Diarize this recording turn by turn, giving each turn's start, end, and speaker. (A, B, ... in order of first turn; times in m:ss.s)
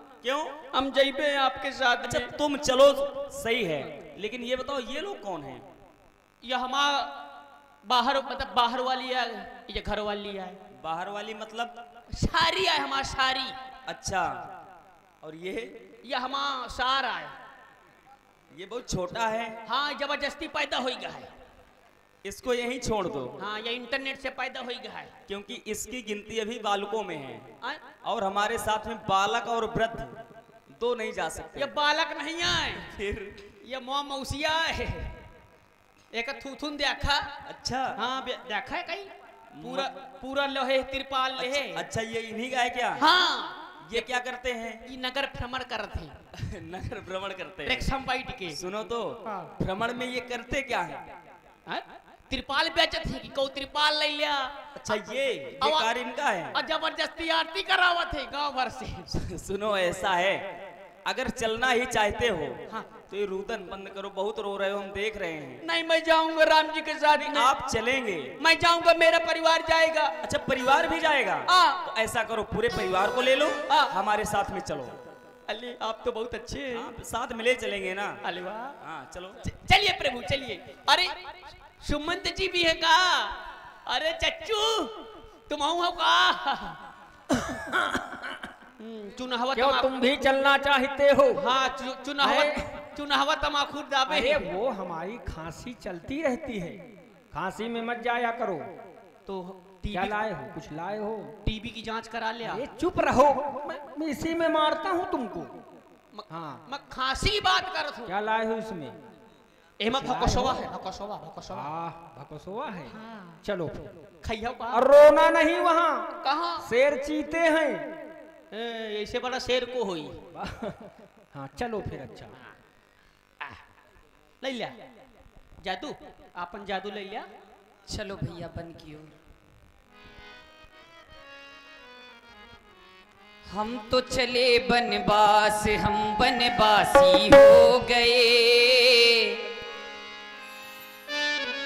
0:00.2-0:00.6 A
0:00.7-0:02.3 B
0:02.0-0:05.6 A
0:06.4-0:07.1 B
0:07.8-0:10.6 B
0:10.7-0:11.8 A
0:12.1-0:13.6 B
0:13.9-0:14.3 A
0:15.2-0:15.8 A
0:16.0-0:17.3 B
0:18.5-0:19.6 A
0:19.6-0:21.3 B
0:22.2-0:23.4 A
0:23.4-0:25.1 B
0:25.3-0:27.4 A
0:28.0-0:30.2 A
0:30.7-0:31.7 A
0:31.6-0:32.9 B
0:32.8-0:33.4 A
0:33.6-0:35.1 B
0:36.1-0:37.3 B
0:37.4-0:38.0 A
0:38.0-0:41.8 B
0:39.5-0:39.9 A
0:41.4-0:43.0 A
0:43.0-0:44.1 B
0:43.8-0:44.8 A
0:44.8-0:46.1 B
0:46.3-0:47.9 A
0:47.6-0:48.6 B
0:48.5-0:51.0 A
0:49.2-0:49.5 B
0:51.7-0:54.5 B
0:54.7-0:56.6 A
0:55.6-0:55.9 B
0:56.5-0:59.1 B
0:59.1-1:00.4 A
1:01.0-1:05.6 A
1:05.6-1:07.5 B
1:07.2-1:08.3 A
1:08.4-1:10.1 B
1:10.2-1:15.0 A
1:11.5-1:11.8 B
1:13.7-1:13.9 B
1:15.5-1:16.9 B
1:16.7-1:18.2 A
1:18.2-1:18.8 B
1:18.8-1:19.4 A
1:19.4-1:21.1 B
1:21.8-1:24.9 B
1:25.5-1:26.8 B
1:27.3-1:28.4 C
1:28.8-1:30.0 B
1:29.5-1:31.5 C
1:31.3-1:34.5 B
1:32.2-1:32.7 C
1:34.1-1:36.8 C
1:37.3-1:38.7 C
1:39.2-1:40.2 B
1:39.9-1:41.3 C
1:41.4-1:42.6 B
1:42.4-1:45.6 C
1:46.1-1:48.1 B
1:46.3-1:46.6 C
1:48.1-1:49.0 C
1:49.8-1:51.7 B
1:49.9-1:50.7 C
1:51.5-1:53.9 C
1:52.9-1:53.4 B
1:54.2-1:54.8 B
1:54.7-1:56.1 C
1:56.2-1:56.7 B
1:56.6-1:57.9 C
1:58.5-2:00.2 B
2:00.3-2:02.3 C
2:04.4-2:04.7 B
2:05.6-2:07.3 B
2:07.9-2:09.2 D
2:13.5-2:19.4 D